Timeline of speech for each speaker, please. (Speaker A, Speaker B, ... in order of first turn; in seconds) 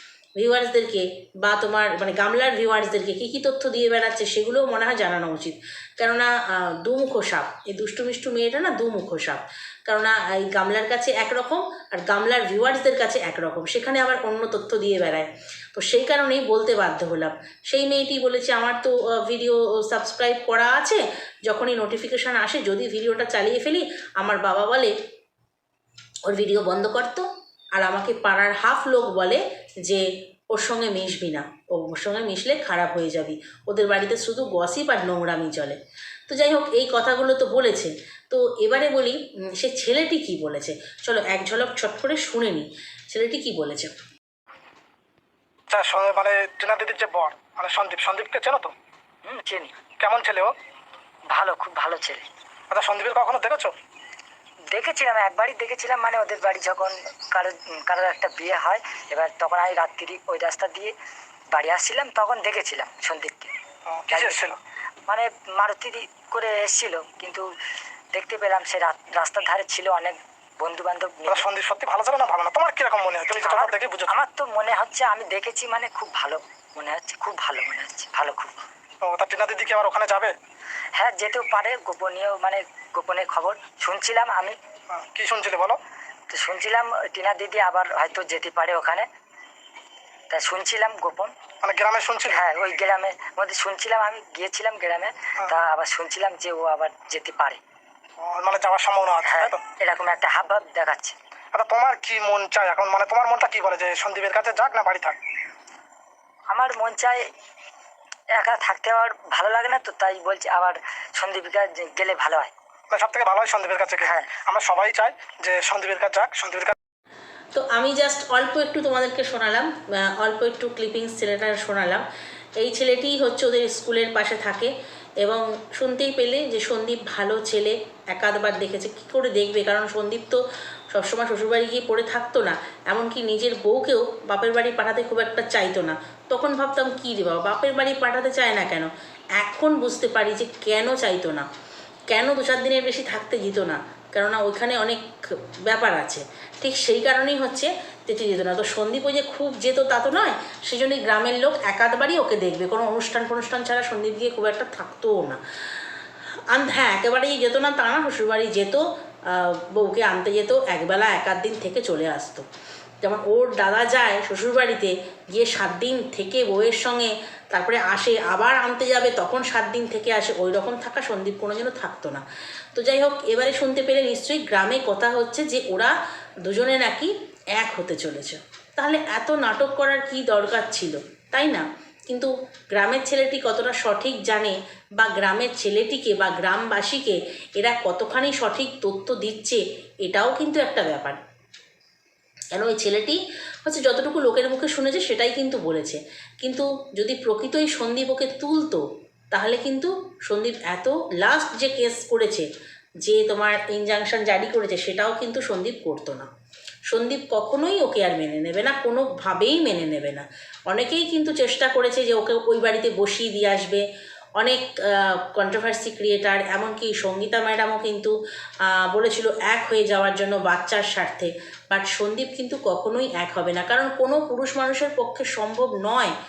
Speaker A: 0.4-24.9, 26.3-35.8, 36.3-43.9, 117.5-122.0, 122.6-124.7, 125.2-130.4, 130.9-141.5, 142.1-155.4, 156.5-162.4, 163.0-172.2, 172.8-175.9, 176.4-191.2, 192.5-202.5, 203.0-206.3, 206.9-213.8, 214.4-218.1, 218.7-226.1
Speaker B: 45.7-48.7, 50.0-50.5, 52.7-53.7, 63.9-64.6, 71.3-74.1, 79.0-80.3, 84.9-85.8, 91.6-92.4, 98.2-99.6, 101.5-105.2, 112.9-116.7
Speaker C: 49.3-49.8, 51.3-52.2, 54.7-60.9, 61.5-63.5, 64.1-64.5, 65.1-67.5, 68.1-71.5, 73.3-78.6, 81.0-84.6, 86.3-89.1, 90.3-91.3, 92.2-97.6, 99.2-101.2, 106.5-107.2, 108.3-112.5, 114.0-114.3